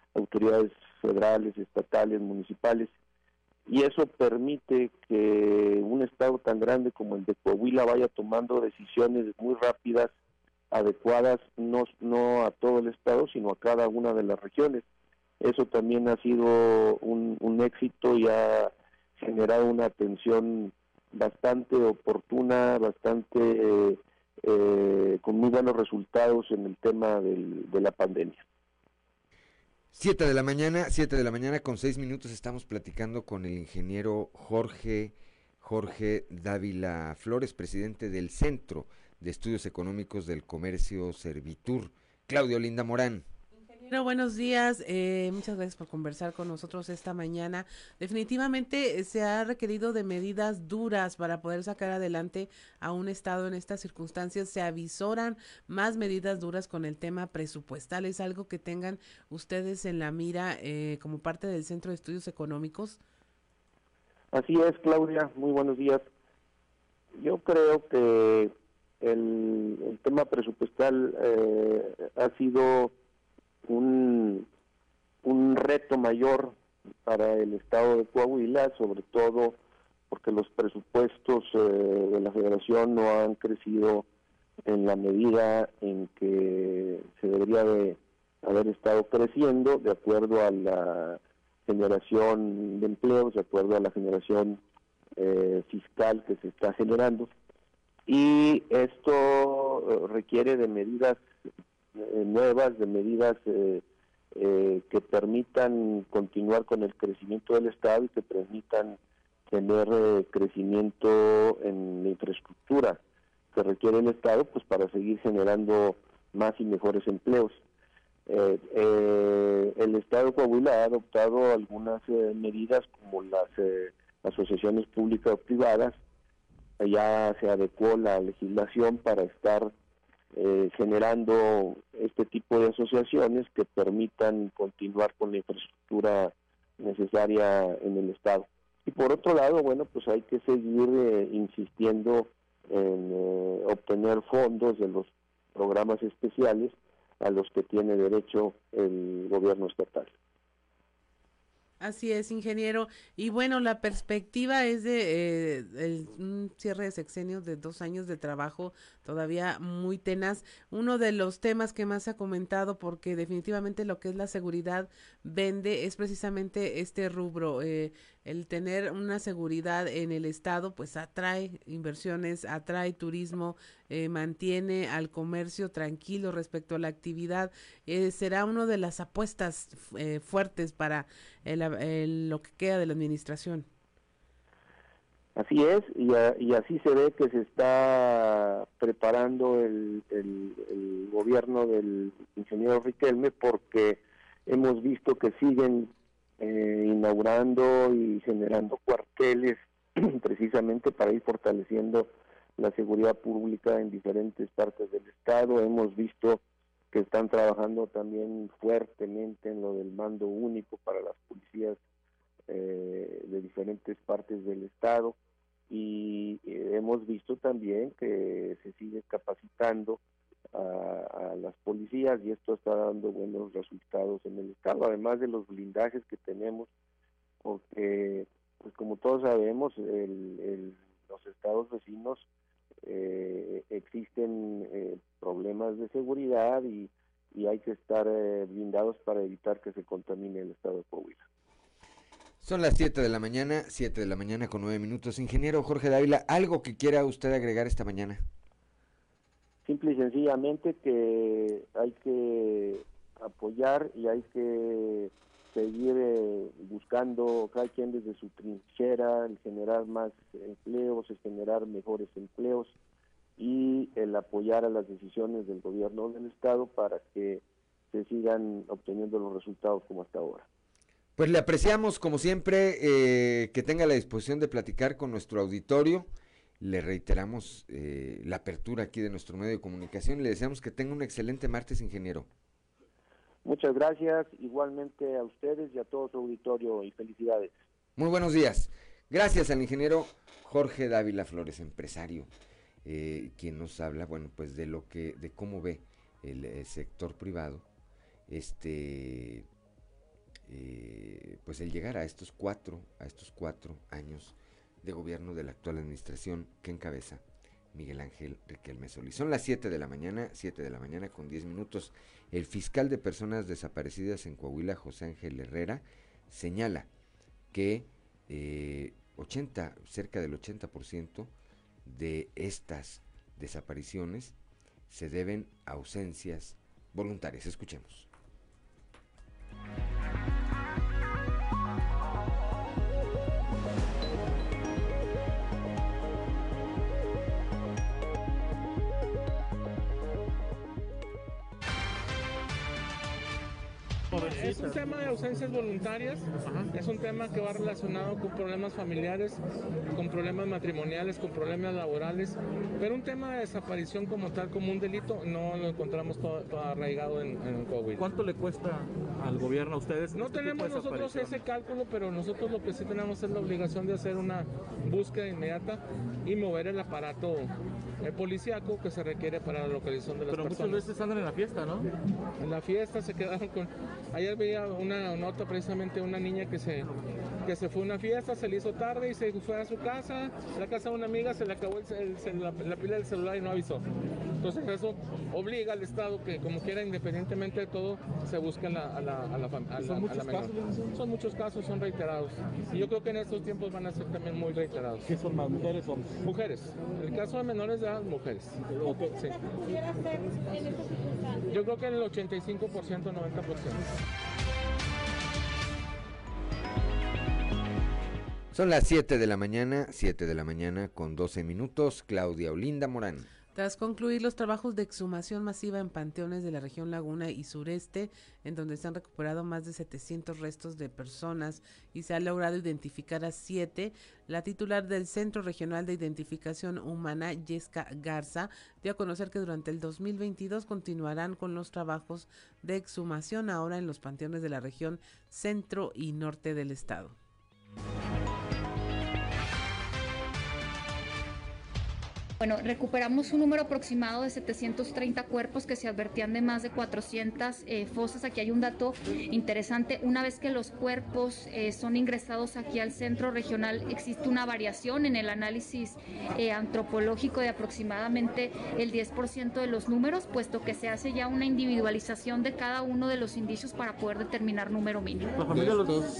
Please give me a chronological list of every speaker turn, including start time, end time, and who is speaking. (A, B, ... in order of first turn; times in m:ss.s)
0:00.2-0:02.9 A
0:03.7-0:10.1 A
0:10.7-0:14.8 A
0:15.4-0:28.4 A
0:29.9-0:43.2 B
0:43.9-1:03.0 C
1:04.3-1:06.1 A
1:07.2-1:12.9 A
1:13.7-1:14.5 A
1:15.2-1:19.6 A
1:20.1-1:24.1 A
1:24.7-1:34.6 A
1:35.2-1:37.3 A
1:38.1-1:41.2 A
1:42.0-1:43.8 A
1:44.4-1:53.0 A
1:53.5-1:57.6 A
1:58.3-2:06.0 A
2:06.8-2:09.7 A
2:10.3-2:30.2 A
2:31.8-3:03.7 C
3:05.4-3:26.4 A
3:26.9-3:31.8 A
3:32.5-3:35.2 A
3:35.7-3:40.0 A
3:40.5-3:46.7 A
3:47.4-3:52.3 A
3:52.8-4:01.2 A
4:02.4-4:08.2 B
4:09.6-4:22.7 A
4:23.4-4:30.5 A
4:31.2-4:36.1 B
4:36.6-4:42.3 B
4:43.4-4:47.5 A
4:48.0-4:52.3 B
4:52.8-4:57.6 B
4:58.3-4:59.5 B
5:00.5-5:16.9 B
5:17.5-5:21.3 B
5:21.8-5:24.4 B
5:24.9-5:28.1 B
5:44.1-5:49.4 D
5:44.2-5:44.8 E
5:49.9-5:58.1 D
5:58.0-6:01.4 E
6:00.1-6:07.5 D
6:08.0-6:11.0 D
6:10.3-6:11.9 E
6:12.4-6:16.9 D
6:17.4-6:23.8 D
6:24.4-6:39.4 D
6:29.8-6:30.5 E
6:41.5-6:43.8 D
6:48.5-6:53.3 B
6:53.5-7:17.2 C
7:22.4-7:45.4 F
7:45.6-7:46.0 E